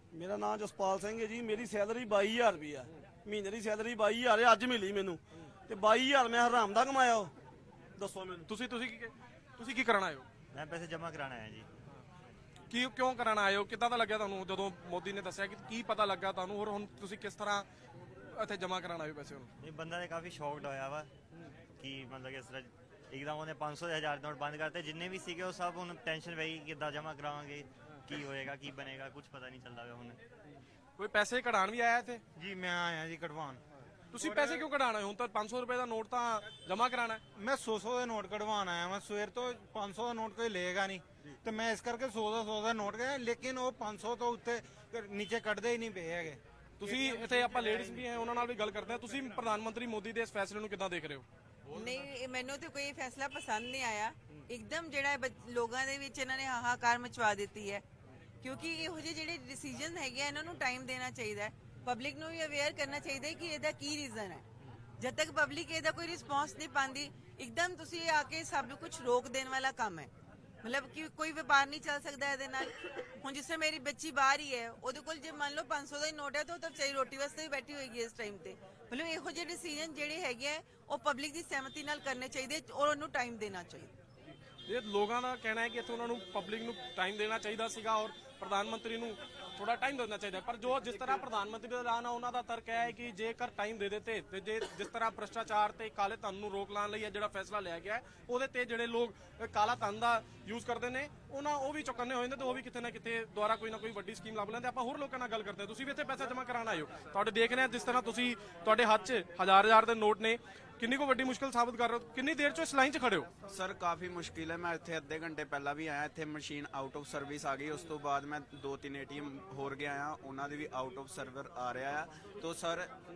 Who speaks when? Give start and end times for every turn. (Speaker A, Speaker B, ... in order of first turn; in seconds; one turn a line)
Speaker A: 0.1-7.3
Speaker A: 8.0-8.4
Speaker B: 8.5-10.2
Speaker C: 10.5-11.7
Speaker B: 12.7-17.7
Speaker B: 18.3-19.5
Speaker C: 19.6-21.1
Speaker C: 21.8-30.2
Speaker B: 31.0-32.2
Speaker D: 32.4-33.6
Speaker B: 34.1-37.2
Speaker D: 34.2-34.6
Speaker D: 37.3-46.4
Speaker B: 46.8-51.2
Speaker E: 51.7-57.8
Speaker E: 58.4-64.4
Speaker E: 65.0-70.1
Speaker E: 70.6-83.9
Speaker B: 84.7-113.3
Speaker F: 113.5-122.9